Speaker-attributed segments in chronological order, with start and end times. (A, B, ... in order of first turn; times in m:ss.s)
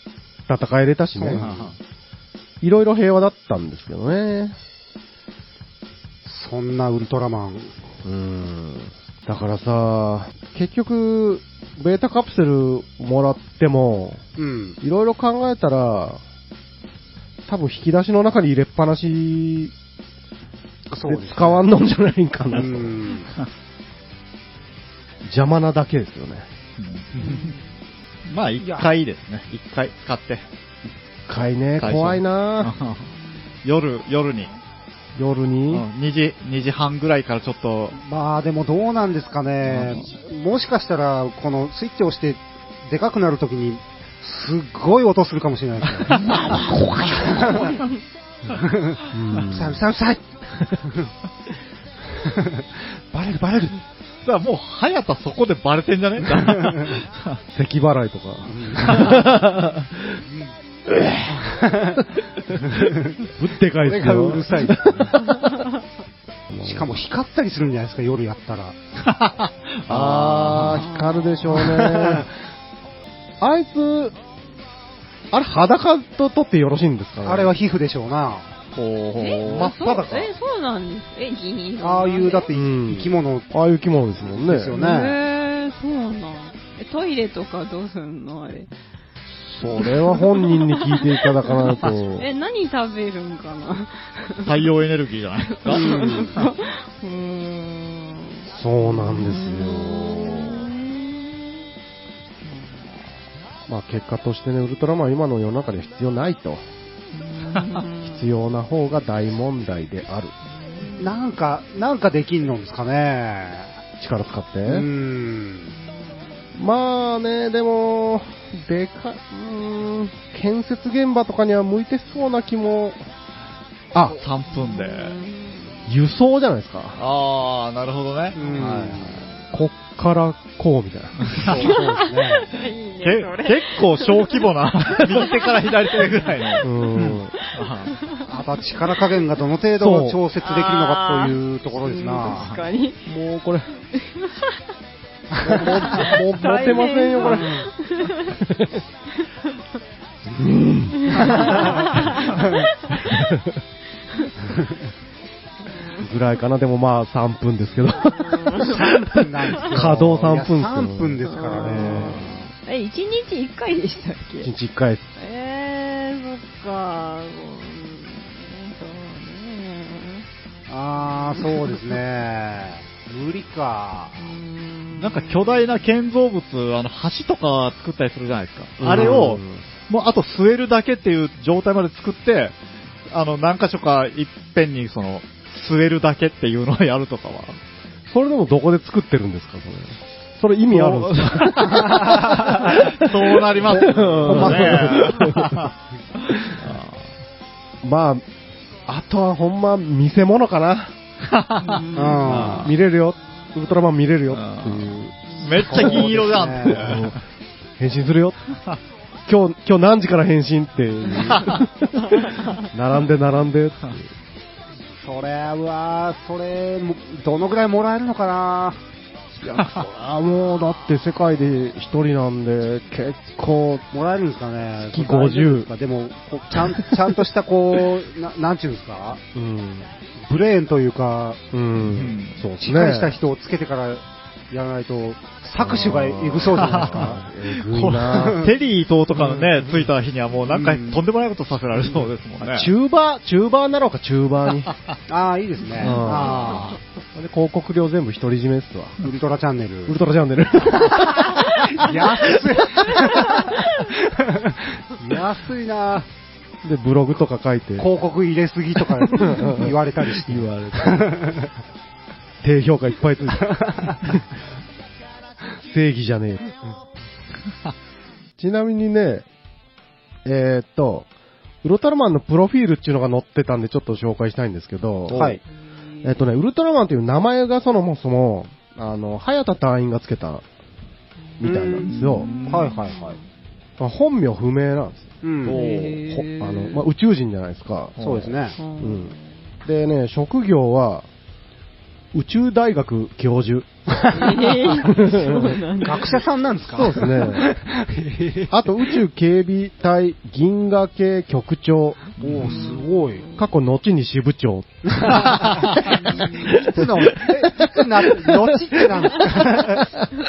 0:00.5-0:01.5 A
0:01.1-0:01.7 B
0:01.3-0:01.8 C
0:02.6-0:04.6 A
0:06.2-0:07.7 B
0:08.0-0:14.2 A
0:14.4-0:14.8 B
0:14.8-0:16.2 A
0:17.5-0:19.7 A
0:20.9-0:21.7 B
0:21.0-0:23.0 A
0:22.5-0:23.3 B
0:25.2-0:26.5 A
0:26.8-0:27.6 C
0:27.2-0:27.6 D
0:28.3-0:30.4 C
0:28.6-0:28.9 B
0:31.3-0:32.7 A
0:31.8-0:33.1 C
0:33.6-0:34.5 C
0:35.2-0:35.9 A
0:35.7-0:38.0 C
0:37.9-0:47.8 B
0:39.6-0:40.1 C
0:46.0-0:47.8 C
0:48.5-0:51.1 B
0:49.1-0:49.8 A
0:52.0-0:53.8 B
0:54.2-0:57.4 C
0:56.2-0:57.0 B
0:57.5-1:00.2 A
0:58.4-0:59.4 B
1:01.3-1:03.2 B
1:03.4-1:05.6 A
1:03.8-1:05.2 B
1:06.5-1:06.9 A
1:06.6-1:08.8 B
1:09.0-1:10.9 C
1:09.9-1:12.3 A
1:10.6-1:11.5 D
1:11.5-1:12.3 B
1:13.4-1:14.1 A
1:15.3-1:17.5 A
1:17.2-1:18.5 B
1:18.7-1:19.7 C
1:19.2-1:22.5 D
1:19.7-1:20.3 B
1:21.8-1:23.5 B
1:22.5-1:24.7 A
1:24.2-1:25.2 B
1:24.7-1:28.7 D
1:29.5-1:32.2 A
1:29.6-1:34.7 D
1:34.4-1:36.5 C
1:35.4-1:41.6 D
1:35.7-1:36.3 B
1:38.5-1:40.7 A
1:42.4-1:43.0 D
1:43.7-1:46.6 A
1:47.1-1:48.3 D
1:48.0-1:50.3 A
1:50.6-1:51.2 D
1:51.0-1:53.7 B
1:54.0-1:54.9 A
1:54.6-1:55.7 B
1:55.7-1:56.5 D
1:56.6-2:03.0 A
2:04.2-2:05.1 C
2:04.4-2:05.9 D
2:05.9-2:07.0 A
2:07.0-2:09.1 C
2:08.3-2:09.2 B
2:08.4-2:09.3 D
2:09.5-2:11.3 A
2:11.2-2:11.8 C
2:11.4-2:12.5 B
2:11.5-2:18.8 D
2:13.0-2:17.9 C
2:16.6-2:17.4 A
2:18.3-2:22.6 B
2:19.8-2:20.2 A
2:20.3-2:23.1 D
2:23.0-2:23.7 A
2:23.8-2:24.6 D
2:25.3-2:25.7 B
2:25.4-2:27.5 A
2:25.6-2:28.4 D
2:27.2-2:27.7 B
2:28.3-2:28.8 A
2:30.3-2:32.2 A
2:31.0-2:33.3 D
2:31.2-2:32.6 B
2:33.0-2:33.6 A
2:35.6-2:36.1 D
2:36.0-2:42.4 A
2:38.1-2:38.9 D
2:38.6-2:42.2 B
2:39.4-2:39.9 D
2:41.3-2:44.5 D
2:44.4-2:45.0 A
2:45.2-2:50.3 D
2:50.7-2:54.3 B
2:51.0-2:51.8 D
2:54.2-2:55.8 D
2:55.0-3:02.6 C
2:58.8-2:59.6 A
3:03.1-3:07.6 C
3:08.1-3:15.7 A
3:10.7-3:15.7 C
3:13.6-3:15.0 B
3:14.9-3:15.2 D
3:16.3-3:17.0 C
3:17.8-3:18.2 A
3:18.9-3:20.9 A
3:21.3-3:22.7 C
3:21.6-3:22.7 D
3:21.9-3:22.6 B
3:22.3-3:27.2 A
3:24.3-3:27.2 C
3:25.3-3:25.6 D
3:25.5-3:26.9 B
3:27.8-3:28.4 A
3:29.3-3:34.1 A
3:31.3-3:31.6 C
3:32.1-3:32.6 D
3:35.0-3:38.8 B
3:39.4-3:43.8 A
3:43.9-3:49.2 B
3:44.8-3:45.7 A
3:49.3-3:49.9 A
3:50.2-3:51.4 B
3:51.5-3:53.2 A
3:51.8-3:52.4 C
3:52.6-3:57.2 B
3:55.6-3:58.4 A
3:56.4-4:02.7 C
3:58.1-3:58.5 B
3:59.1-3:59.7 B
4:00.5-4:01.0 B
4:02.4-4:04.7 A
4:05.1-4:06.7 B
4:05.7-4:06.8 C
4:05.7-4:09.1 A
4:09.0-4:10.0 B
4:09.9-4:12.3 A
4:10.7-4:16.1 B
4:16.6-4:17.9 A
4:17.8-4:21.5 B
4:19.1-4:21.1 A
4:22.4-4:24.2 A
4:23.3-4:24.0 B
4:25.6-4:26.6 A
4:28.4-4:29.2 A
4:30.2-4:31.1 A
4:31.6-4:35.4 A
4:35.1-4:35.3 C
4:35.1-4:35.4 B
4:35.7-4:36.2 D
4:36.0-4:40.4 A
4:41.4-4:42.3 A
4:41.4-4:43.2 D
4:41.8-4:42.8 C
4:42.4-4:43.2 B
4:43.8-4:48.0 A
4:45.2-4:45.6 B
4:45.4-4:46.0 C
4:45.5-4:46.9 D
4:48.0-4:48.3 C
4:48.0-4:48.6 B
4:48.6-4:49.3 D
4:48.8-4:51.1 A
4:52.1-4:53.7 A
4:54.0-4:54.9 B
4:54.1-4:56.2 D
4:54.6-4:55.7 A
4:55.8-4:58.8 B
4:56.7-4:57.4 A
4:57.0-4:57.4 D
4:58.5-5:02.0 A
5:02.2-5:02.7 C
5:02.2-5:03.2 B
5:02.4-5:03.4 D
5:03.4-5:06.0 A
5:04.8-5:09.9 B
5:07.1-5:07.4 A